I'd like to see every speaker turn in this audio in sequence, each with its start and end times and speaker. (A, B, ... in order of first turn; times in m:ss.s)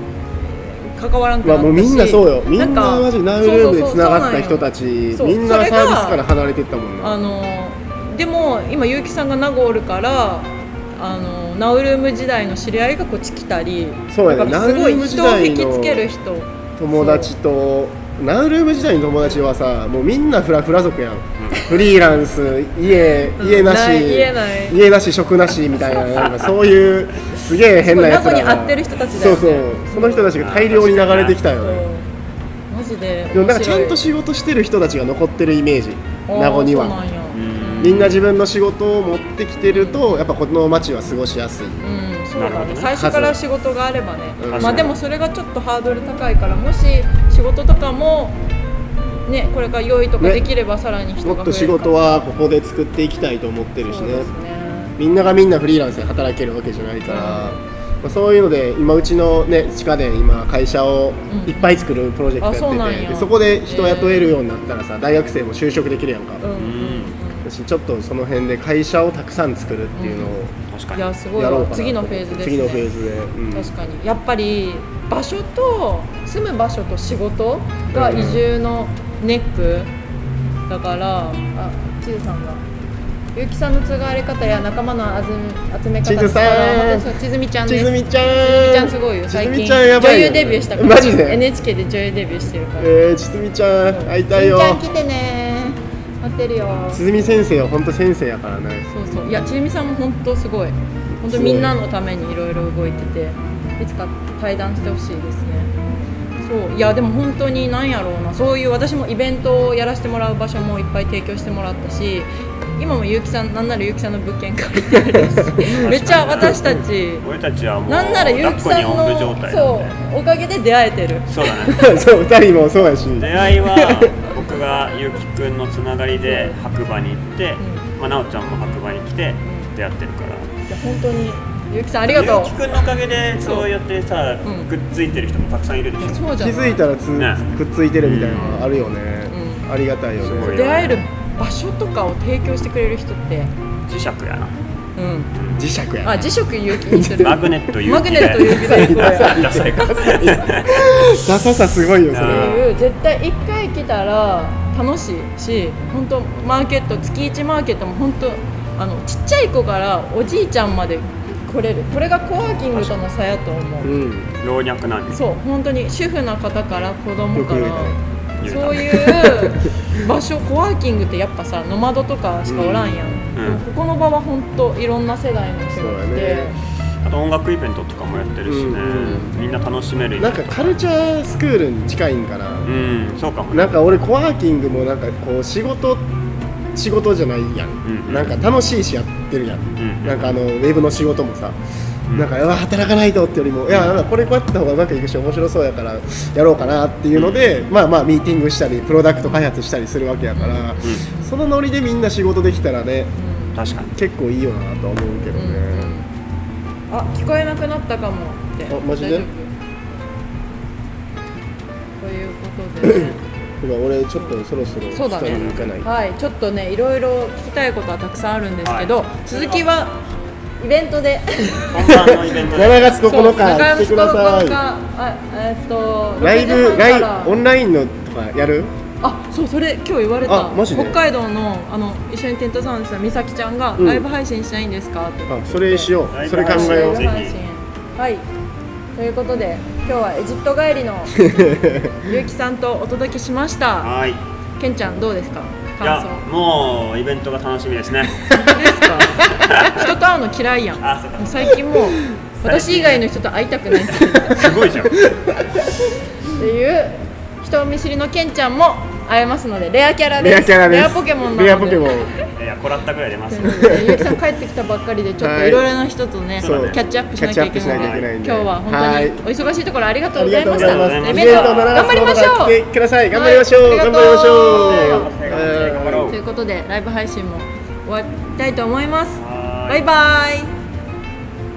0:00.4-0:06.2 A
0:01.4-0:07.2 B
0:07.0-0:17.3 A
0:14.1-0:16.1 B
0:16.8-0:31.8 B
0:23.4-0:24.8 A
0:26.2-0:26.5 C
0:27.8-0:30.4 A
0:30.4-0:31.4 C
0:31.5-0:32.1 A
0:32.7-0:34.1 A
0:33.3-0:37.0 B
0:36.3-0:38.1 A
0:37.3-0:38.2 C
0:37.8-0:41.8 B
0:39.7-0:40.3 A
0:41.8-0:48.4 A
0:42.3-0:42.9 C
0:42.9-0:43.4 B
0:44.4-0:45.0 B
0:44.5-0:45.0 C
0:49.2-0:52.2 A
0:50.2-0:50.4 B
0:51.2-0:54.3 B
0:53.8-0:55.0 A
0:55.0-1:06.4 B
0:57.1-0:57.6 A
1:01.3-1:01.8 A
1:02.4-1:04.4 A
1:06.4-1:07.5 A
1:06.5-1:07.2 C
1:07.4-1:10.5 B
1:10.0-1:10.4 A
1:10.7-1:11.0 C
1:10.9-1:12.9 A
1:11.4-1:13.7 B
1:13.5-1:19.9 A
1:17.9-1:18.4 B
1:20.7-1:22.6 A
1:23.3-1:32.9 A
1:26.0-1:27.1 B
1:27.6-1:31.4 B
1:32.8-1:34.8 B
1:33.9-1:37.0 A
1:36.9-1:38.9 B
1:38.9-1:45.7 A
1:41.2-1:41.8 B
1:46.4-1:57.2 A
1:55.8-1:59.9 C
1:57.9-2:01.3 A
2:01.3-2:02.0 C
2:01.4-2:04.1 B
2:03.2-2:10.5 C
2:06.2-2:06.6 A
2:07.6-2:07.8 A
2:09.4-2:09.7 A
2:10.7-2:12.7 A
2:12.1-2:16.3 C
2:13.4-2:13.7 A
2:14.4-2:14.7 A
2:16.0-2:16.9 A
2:16.4-2:20.6 B
2:17.1-2:17.5 C
2:18.0-2:18.6 C
2:18.3-2:18.7 A
2:19.3-2:19.7 A
2:20.2-2:21.0 C
2:20.4-2:23.5 A
2:23.9-2:24.5 C
2:25.0-2:25.3 A
2:25.3-2:25.6 C
2:25.6-2:27.5 B
2:26.0-2:29.6 A
2:27.2-2:30.9 C
2:28.4-2:32.7 B
2:32.1-2:32.7 C
2:32.2-2:43.9 A
2:43.8-2:44.3 B
2:44.4-2:45.2 C
2:45.1-2:56.6 A
2:47.3-2:48.0 B
2:48.4-2:48.9 C
2:48.8-2:49.7 B
2:52.5-2:52.9 B
2:53.3-2:53.6 C
2:55.8-2:56.5 B
2:57.0-3:00.8 C
2:58.4-2:59.3 B
3:00.2-3:02.7 B
3:02.6-3:03.7 C
3:03.5-3:06.1 B
3:06.7-3:11.6 B
3:07.8-3:08.4 C
3:09.8-3:10.4 C
3:12.1-3:23.1 B
3:13.7-3:14.0 C
3:17.1-3:17.7 C
3:20.3-3:21.3 A
3:23.2-3:23.6 A
3:23.5-3:23.9 C
3:23.9-3:25.9 B
3:25.3-3:26.1 A
3:26.9-3:29.5 A
3:28.7-3:29.3 B
3:32.0-3:33.2 A
3:32.8-3:35.9 B
3:34.9-3:40.0 A
3:35.3-3:35.7 C
3:38.6-3:39.6 C
3:40.6-3:42.3 A
3:41.7-3:43.0 C
3:42.5-3:44.6 B
3:43.0-3:47.4 A
3:46.2-3:48.7 B
3:49.0-3:58.2 A
3:50.2-3:51.0 B
3:53.8-3:54.1 B
3:55.3-3:57.1 B
3:56.1-3:57.4 C
3:58.9-4:01.5 A
4:01.3-4:02.0 B
4:02.0-4:03.9 A
4:03.8-4:04.2 C
4:04.6-4:06.2 A
4:05.8-4:08.5 C
4:08.3-4:14.7 A
4:09.2-4:09.9 C
4:10.8-4:11.6 C
4:12.4-4:13.0 C
4:13.9-4:15.0 C
4:15.0-4:15.6 B
4:16.2-4:22.2 A
4:20.2-4:22.1 B
4:22.3-4:23.7 C
4:23.3-4:32.6 A
4:23.4-4:24.0 B
4:25.2-4:25.7 B
4:26.4-4:26.8 C
4:26.4-4:29.2 B
4:27.6-4:28.1 C
4:30.1-4:36.1 B
4:30.5-4:31.9 C
4:33.1-4:35.1 A
4:34.3-4:36.2 C
4:36.0-4:40.5 A
4:39.2-4:39.9 C